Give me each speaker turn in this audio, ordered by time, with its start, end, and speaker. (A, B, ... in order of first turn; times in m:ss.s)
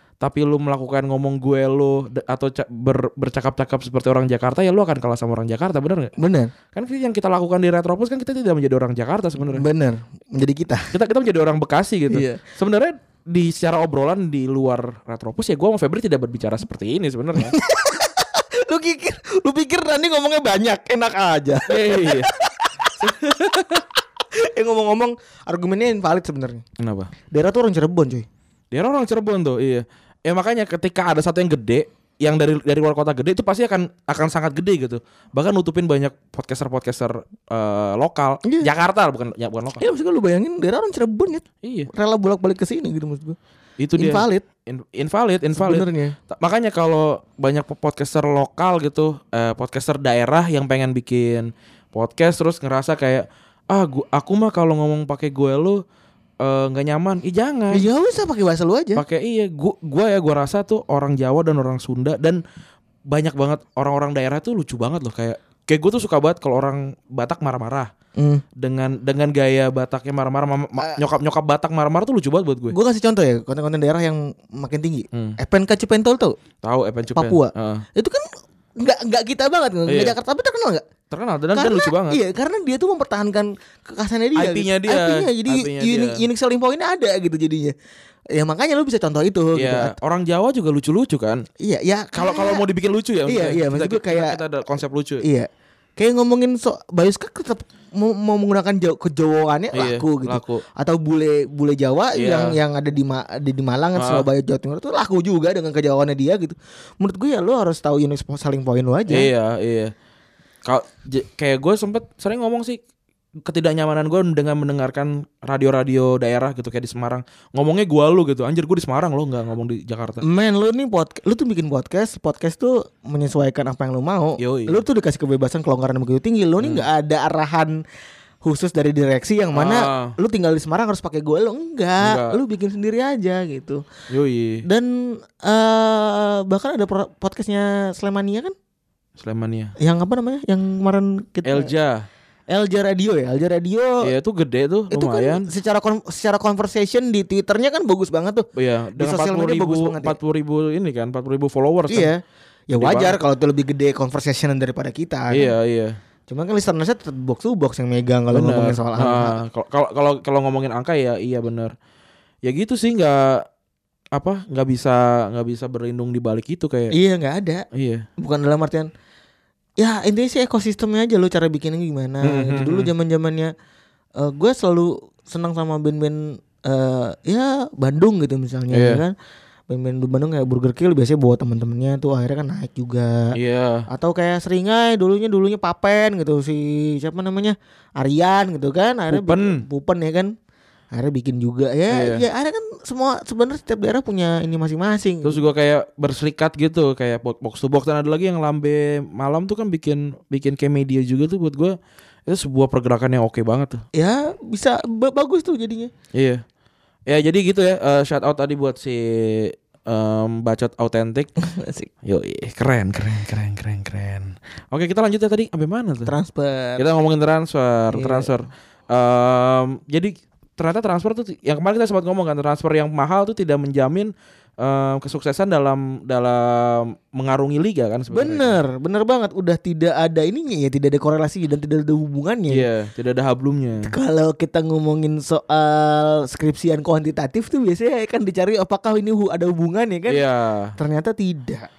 0:00.2-0:06.1 A
0:06.2-0:06.5 B
0:06.7-0:09.7 A
0:09.4-0:10.9 B
0:10.9-0:17.6 A
0:12.1-0:12.4 B
0:17.4-0:26.6 B
0:21.7-0:22.3 A
0:26.8-0:27.1 A
0:27.3-0:28.2 B
0:28.7-0:39.8 A
0:39.8-0:43.4 B
0:41.6-0:41.9 A
0:43.8-0:55.8 A
0:44.0-0:44.4 B
0:45.5-0:46.2 B
0:56.4-0:57.8 A
0:57.7-0:59.0 B
0:59.0-1:02.4 A
1:03.1-1:07.9 A
1:08.2-1:08.4 B
1:08.6-1:12.8 A
1:12.7-1:16.4 B
1:16.6-1:17.8 A
1:17.1-1:18.2 B
1:18.8-1:20.8 B
1:19.9-1:20.1 A
1:21.1-1:22.2 A
1:21.5-1:27.7 B
1:24.4-1:26.2 A
1:28.3-1:29.9 B
1:29.5-1:31.4 A
1:31.6-1:32.6 B
1:32.1-1:35.2 A
1:33.2-1:34.4 B
1:35.2-1:49.3 B
1:39.7-1:40.6 A
1:42.1-1:42.6 A
1:44.0-1:44.2 A
1:49.1-1:49.9 A
1:50.6-1:52.8 A
1:53.4-2:00.2 A
2:00.2-2:07.8 B
2:04.4-2:04.8 A
2:06.6-2:06.8 A
2:08.4-2:13.8 B
2:09.5-2:10.2 A
2:12.0-2:12.4 A
2:14.1-2:14.6 A
2:14.6-2:18.5 B
2:19.2-2:19.7 A
2:19.8-2:21.7 B
2:21.4-2:22.0 A
2:22.5-2:24.1 B
2:24.0-2:25.5 A
2:24.9-2:30.2 B
2:28.6-2:32.1 A
2:31.9-2:35.5 B
2:32.7-2:33.2 A
2:35.3-2:36.0 A
2:36.3-2:39.4 B
2:38.3-2:41.7 A
2:42.4-2:43.4 A
2:44.1-2:47.0 A
2:46.9-2:47.6 B
2:47.7-2:48.0 A
2:48.2-2:48.9 B
2:49.8-2:53.5 B
2:52.2-2:52.9 A
2:54.2-2:59.1 B
2:58.7-2:59.0 A
2:59.7-3:03.4 B
3:03.3-3:03.9 A
3:03.9-3:10.3 B
3:09.1-3:09.6 A
3:10.9-3:15.4 B
3:11.9-3:12.2 A
3:15.2-3:23.8 A
3:23.9-3:25.9 B
3:26.1-3:26.4 A
3:27.1-3:31.3 A
3:31.4-3:31.9 B
3:32.0-3:36.1 A
3:36.0-3:36.9 B
3:36.8-3:48.6 A
3:37.9-3:38.3 B
3:48.1-3:52.7 B
3:52.5-3:53.9 A
3:53.8-4:00.2 B
4:00.1-4:00.8 A
4:00.8-4:01.7 B